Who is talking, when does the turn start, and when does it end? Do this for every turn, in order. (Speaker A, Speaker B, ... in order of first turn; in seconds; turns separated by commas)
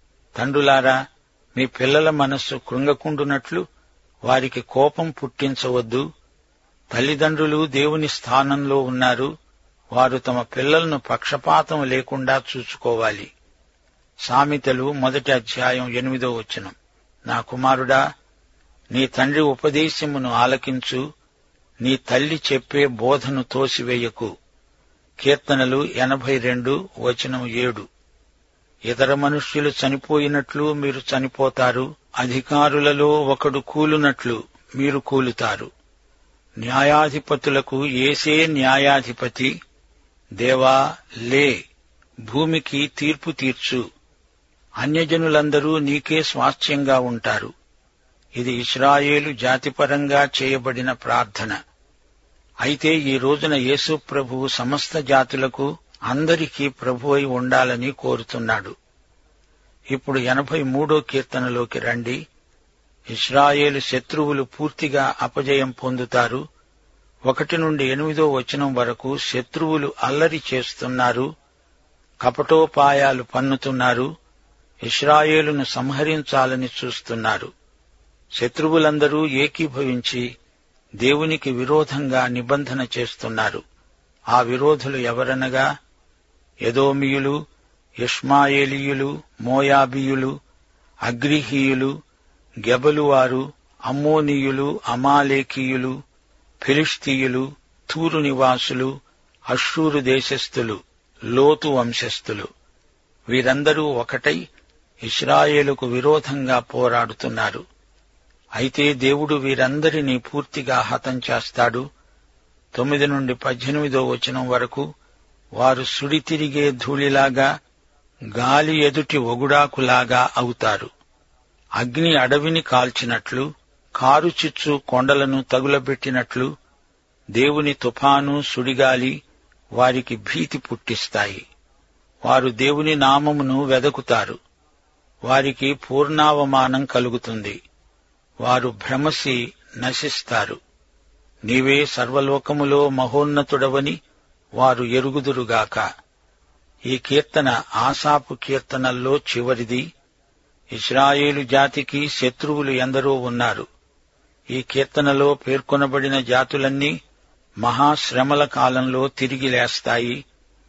Speaker A: 0.3-1.0, Speaker A: 1.5-3.6, Speaker A: 4.3-6.0, Speaker A: 6.9-9.3, Speaker A: 9.9-13.3, Speaker A: 14.3-16.7, Speaker A: 17.2-18.0, Speaker A: 18.9-21.0, Speaker A: 21.8-24.3, Speaker A: 25.2-27.9, Speaker A: 28.9-35.7, Speaker A: 36.6-39.5, Speaker A: 40.4-41.5, Speaker A: 42.3-43.8, Speaker A: 44.8-47.5, Speaker A: 48.4-51.6, Speaker A: 52.6-58.8, Speaker A: 59.9-62.2, Speaker A: 63.1-66.4, Speaker A: 67.3-71.3, Speaker A: 72.2-74.1, Speaker A: 74.8-77.5, Speaker A: 78.4-80.3, Speaker A: 81.0-83.6, Speaker A: 84.3-85.7, Speaker A: 86.6-87.4, Speaker A: 88.0-90.3, Speaker A: 91.1-91.9, Speaker A: 92.6-96.0, Speaker A: 96.6-98.9, Speaker A: 99.5-100.8, Speaker A: 101.3-102.5, Speaker A: 103.3-104.4, Speaker A: 105.0-107.6, Speaker A: 108.6-111.8, Speaker A: 112.7-114.8, Speaker A: 115.6-117.5, Speaker A: 118.3-120.9, Speaker A: 121.8-126.5, Speaker A: 127.4-129.2, Speaker A: 129.8-131.4, Speaker A: 132.2-134.4, Speaker A: 135.3-137.6, Speaker A: 138.4-140.6, Speaker A: 141.5-144.0, Speaker A: 144.6-145.8, Speaker A: 146.9-149.9, Speaker A: 150.7-153.7, Speaker A: 154.5-156.9, Speaker A: 157.6-160.2